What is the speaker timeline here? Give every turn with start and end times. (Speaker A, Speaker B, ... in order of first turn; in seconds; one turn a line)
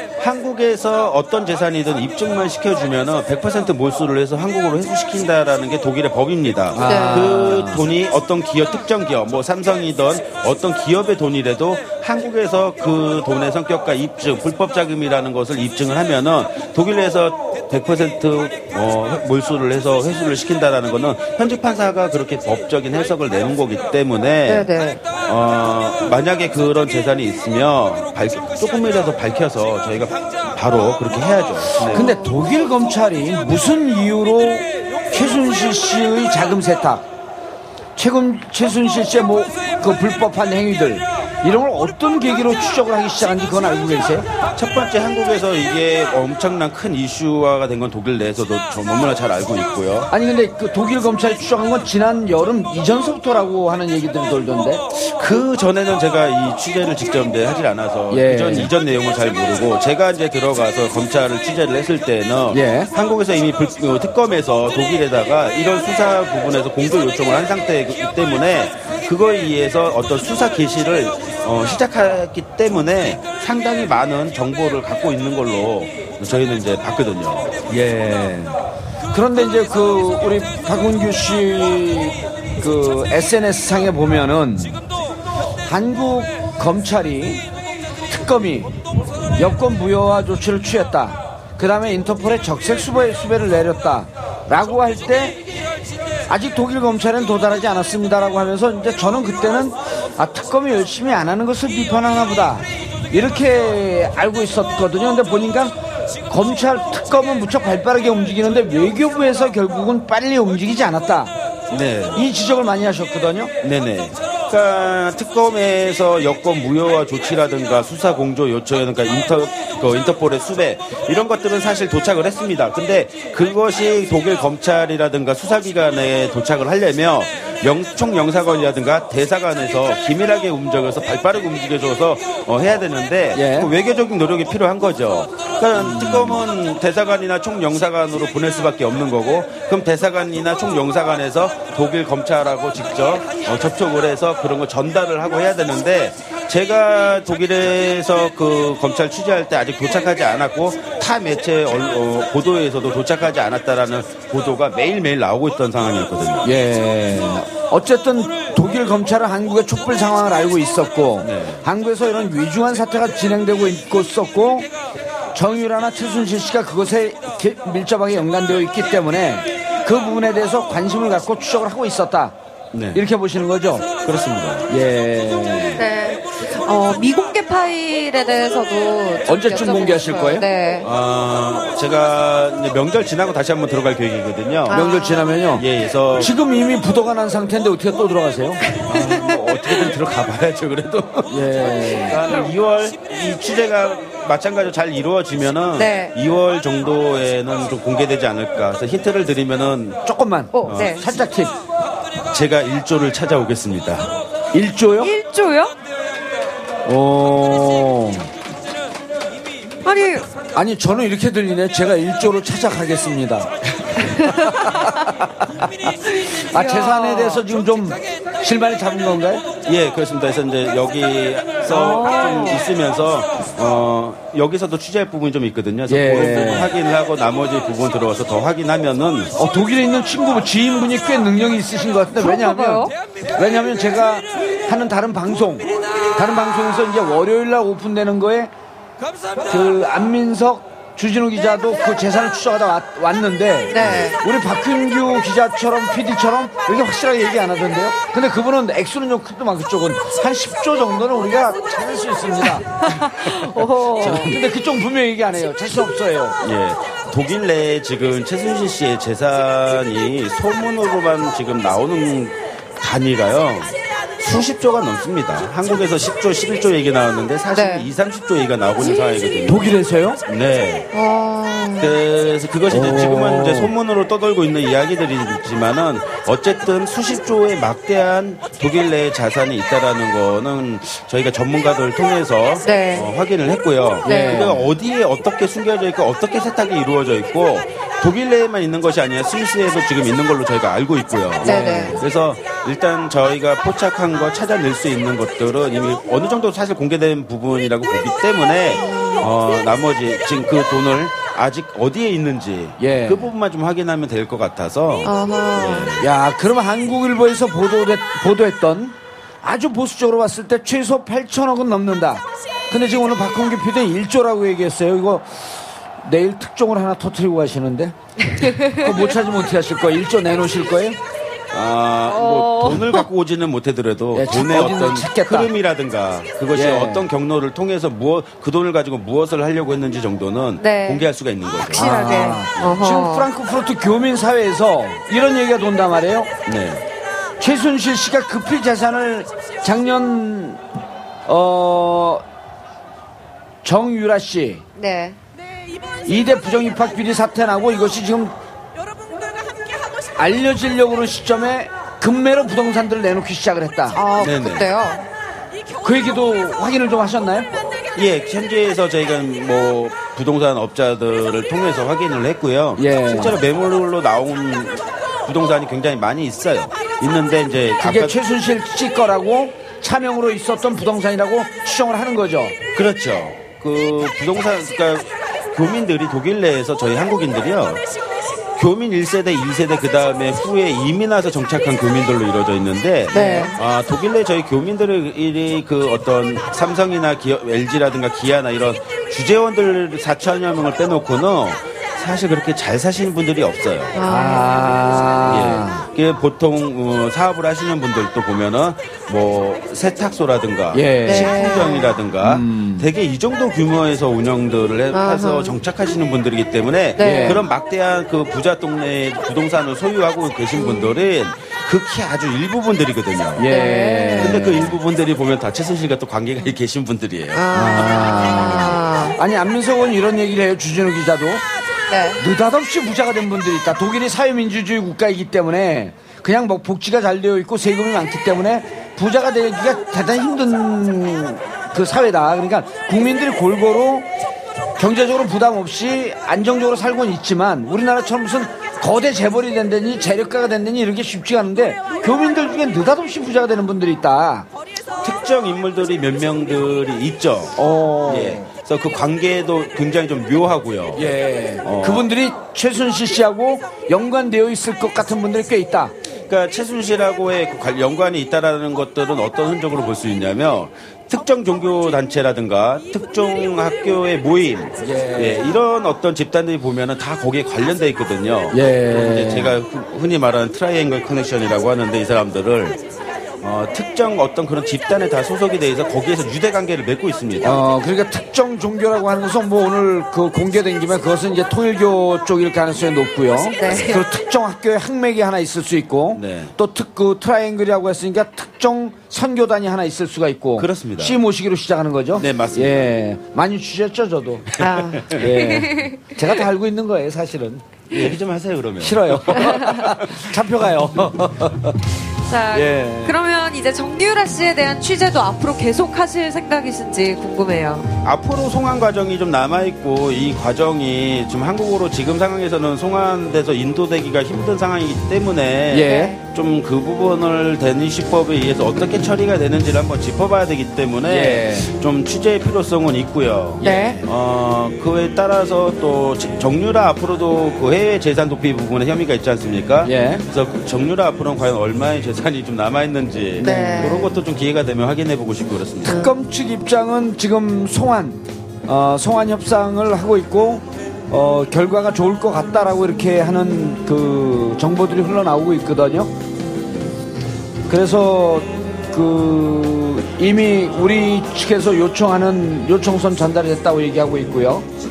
Speaker A: 0.2-24.7
Speaker B: 6.7-7.8
Speaker C: 6.8-7.4
Speaker C: 24.5-25.0
Speaker A: 25.2-32.1
Speaker B: 31.8-37.1
Speaker C: 31.9-32.4
Speaker B: 38.0-44.3
Speaker A: 44.5-50.1
Speaker B: 50.1-54.8
Speaker A: 54.9-77.5
Speaker B: 58.1-58.7
Speaker B: 62.5-62.9
Speaker B: 77.7-78.6
Speaker B: 79.1-84.8
Speaker B: 85.7-87.4
Speaker B: 88.1-88.7
Speaker B: 89.4-95.4
Speaker B: 96.3-105.8
Speaker B: 106.3-111.3
Speaker A: 111.7-112.2
Speaker B: 112.1-113.5
Speaker A: 113.6-156.5
Speaker B: 133.3-133.7
Speaker B: 135.8-136.4
Speaker B: 156.4-164.7
Speaker A: 161.2-161.6
Speaker B: 165.3-172.3
Speaker A: 172.7-173.0
Speaker B: 172.9-173.9
Speaker A: 174.1-174.7
Speaker B: 174.7-175.8
Speaker C: 175.8-180.9
Speaker B: 179.3-180.4
Speaker A: 180.8-184.8
Speaker C: 184.7-185.2
Speaker B: 184.7-185.6
Speaker A: 185.5-186.3
Speaker B: 186.2-188.6
Speaker C: 188.8-189.7
Speaker A: 188.9-200.0
Speaker B: 191.3-192.3
Speaker C: 195.8-196.1
Speaker B: 200.1-201.6
Speaker C: 200.5-201.0
Speaker A: 200.7-201.0
Speaker A: 202.3-204.1
Speaker B: 204.5-205.1
Speaker C: 205.0-205.7
Speaker B: 206.8-208.3
Speaker C: 209.8-210.3
Speaker B: 210.6-213.5
Speaker C: 214.0-214.8
Speaker B: 214.4-219.4
Speaker C: 216.5-217.4
Speaker A: 219.7-229.3
Speaker C: 221.8-222.6
Speaker B: 225.9-226.7
Speaker B: 229.4-238.5
Speaker C: 232.2-232.9
Speaker B: 239.5-253.4
Speaker C: 243.7-244.2
Speaker A: 243.8-244.1
Speaker C: 252.8-254.3
Speaker B: 254.0-256.4
Speaker A: 254.0-254.4
Speaker A: 256.4-270.9
Speaker C: 267.5-267.9
Speaker B: 269.5-270.2
Speaker C: 270.9-271.9
Speaker A: 271.8-306.1
Speaker B: 272.7-273.7
Speaker C: 282.6-283.1
Speaker B: 284.1-284.6
Speaker C: 284.1-284.7
Speaker C: 291.4-292.0
Speaker B: 291.4-292.0
Speaker C: 298.8-299.2
Speaker B: 302.8-303.3
Speaker C: 305.0-305.9
Speaker B: 306.0-318.0
Speaker C: 318.4-319.0
Speaker B: 318.5-321.0
Speaker A: 321.5-331.9
Speaker C: 322.1-323.1
Speaker B: 324.1-325.5
Speaker B: 326.5-327.1
Speaker C: 330.6-331.1
Speaker C: 331.7-333.3
Speaker B: 331.7-336.3
Speaker A: 336.5-336.9
Speaker B: 337.4-340.6
Speaker B: 341.3-342.2
Speaker B: 343.6-344.6
Speaker C: 344.8-345.2
Speaker B: 346.1-348.4
Speaker B: 350.2-354.0
Speaker C: 353.9-355.1
Speaker A: 354.2-354.7
Speaker B: 355.8-357.5
Speaker A: 357.9-368.2
Speaker B: 362.8-363.4
Speaker B: 367.8-372.6
Speaker A: 372.8-377.8
Speaker A: 378.6-394.0
Speaker C: 383.1-383.6
Speaker C: 393.9-395.0
Speaker B: 394.0-395.9
Speaker A: 395.2-413.5
Speaker B: 400.7-401.3
Speaker C: 401.1-402.0
Speaker B: 402.2-402.9
Speaker C: 404.9-405.6
Speaker C: 407.0-407.4
Speaker B: 407.0-407.4
Speaker C: 410.6-410.9
Speaker B: 413.4-414.7
Speaker C: 413.5-414.6
Speaker A: 414.2-417.5
Speaker C: 417.3-419.2
Speaker B: 417.5-421.4
Speaker C: 421.9-422.2
Speaker B: 422.2-434.1
Speaker B: 434.8-444.5
Speaker A: 445.0-452.1
Speaker B: 447.6-448.5
Speaker B: 451.0-455.9
Speaker A: 456.3-472.8
Speaker B: 464.8-465.6
Speaker B: 468.5-469.6
Speaker A: 473.4-477.6
Speaker B: 477.4-494.6
Speaker C: 483.6-484.1
Speaker A: 486.1-486.5
Speaker A: 490.6-491.2
Speaker A: 492.2-492.9
Speaker A: 494.5-495.5
Speaker C: 494.6-496.1
Speaker B: 495.1-497.7
Speaker A: 497.9-500.3
Speaker B: 498.8-501.8
Speaker C: 502.3-507.9
Speaker B: 502.5-503.2
Speaker A: 508.0-536.0
Speaker B: 515.7-516.1
Speaker C: 515.8-516.2
Speaker B: 521.1-521.7
Speaker B: 523.6-524.0
Speaker C: 523.6-524.0
Speaker B: 529.8-530.2
Speaker B: 533.4-534.0
Speaker C: 533.4-534.2
Speaker B: 535.8-546.1
Speaker C: 535.9-536.1
Speaker B: 547.7-554.7